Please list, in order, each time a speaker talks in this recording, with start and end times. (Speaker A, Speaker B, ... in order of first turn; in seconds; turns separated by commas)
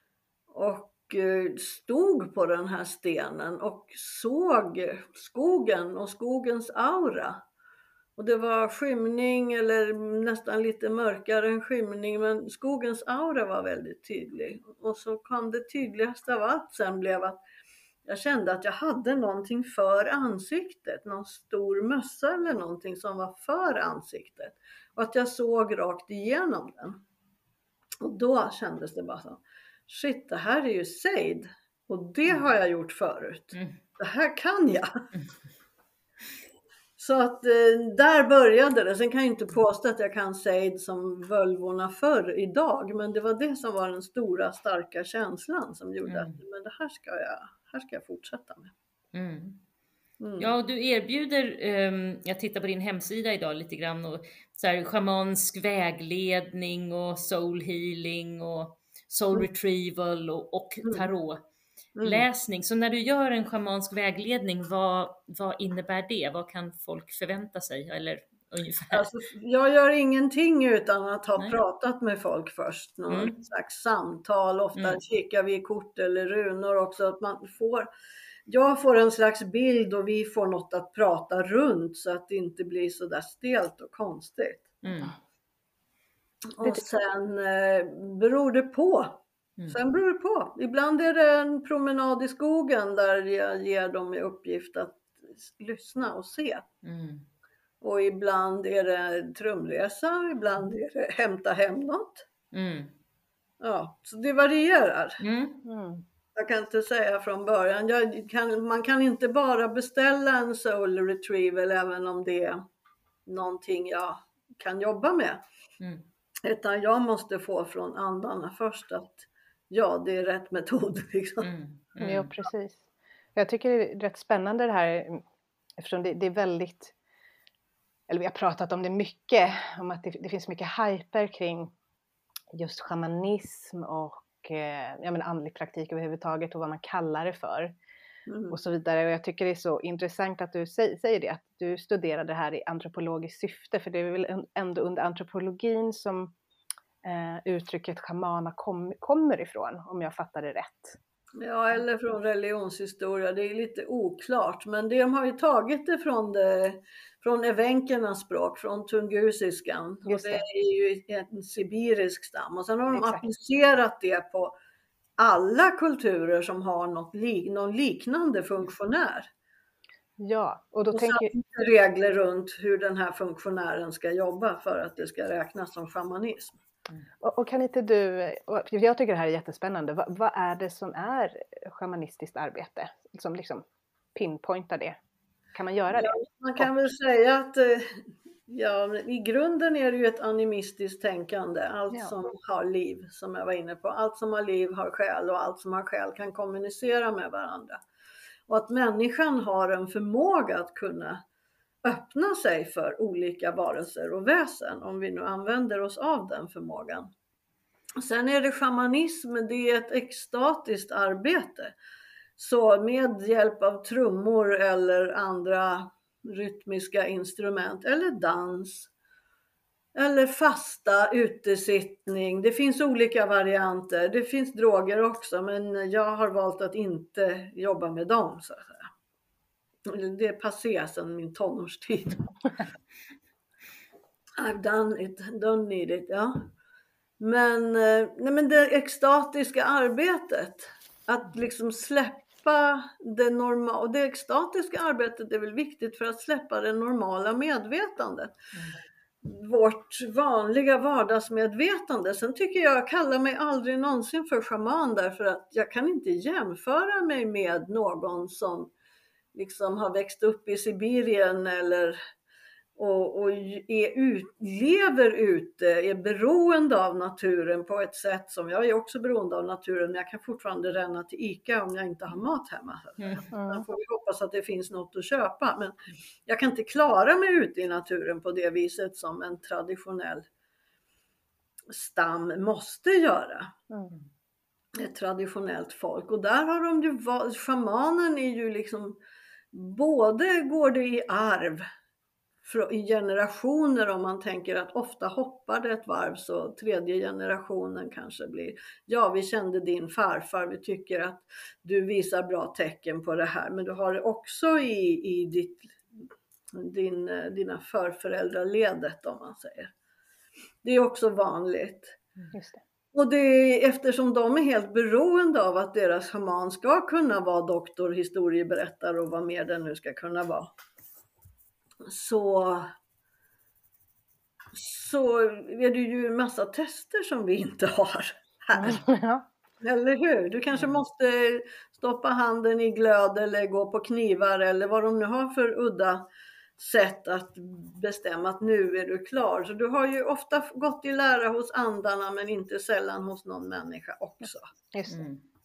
Speaker A: 0.5-7.4, Speaker A: 8.2-17.4, Speaker A: 18.1-27.0, Speaker A: 28.0-34.9, Speaker A: 37.0-48.7, Speaker B: 46.0-46.4, Speaker B: 49.1-49.6, Speaker A: 50.2-50.5, Speaker B: 50.4-61.4, Speaker A: 62.0-62.2, Speaker B: 62.0-69.0, Speaker A: 68.9-77.9, Speaker B: 73.1-73.3, Speaker A: 78.5-84.7, Speaker B: 84.8-85.1, Speaker A: 86.5-89.2, Speaker A: 89.7-96.6, Speaker B: 96.8-97.2, Speaker A: 97.8-102.2, Speaker B: 102.5-102.9, Speaker A: 103.6-105.2, Speaker B: 105.2-105.6, Speaker C: 105.6-106.0, Speaker A: 106.3-112.6, Speaker A: 113.3-115.4, Speaker A: 116.4-121.5, Speaker B: 121.4-122.3, Speaker C: 122.0-122.8, Speaker C: 123.3-125.2, Speaker C: 125.8-126.9, Speaker C: 128.1-131.7, Speaker C: 132.5-137.7, Speaker A: 138.3-138.6, Speaker C: 138.5-146.3, Speaker C: 147.0-151.0, Speaker A: 151.4-164.6, Speaker C: 160.1-160.4, Speaker C: 162.9-163.2, Speaker A: 165.2-169.3, Speaker C: 170.2-171.3, Speaker A: 170.9-176.5, Speaker C: 177.2-185.0, Speaker C: 185.5-186.1, Speaker A: 185.9-197.8, Speaker A: 198.5-201.2, Speaker A: 201.8-207.1, Speaker A: 208.0-211.7, Speaker A: 212.4-218.9, Speaker A: 219.9-228.8, Speaker A: 229.9-232.2, Speaker A: 234.4-236.5, Speaker A: 237.2-248.3, Speaker A: 249.2-258.7, Speaker A: 259.3-262.0, Speaker A: 262.8-280.2, Speaker C: 273.3-273.6, Speaker A: 281.7-283.5, Speaker A: 284.7-289.0, Speaker A: 289.5-291.6, Speaker A: 292.4-305.8, Speaker A: 306.5-309.7, Speaker A: 310.6-312.0, Speaker C: 312.3-312.6, Speaker A: 312.9-320.5, Speaker A: 321.9-322.7, Speaker A: 324.5-328.8, Speaker C: 328.6-329.2, Speaker A: 329.6-336.0, Speaker A: 336.6-344.5, Speaker C: 344.7-345.0, Speaker B: 344.9-345.2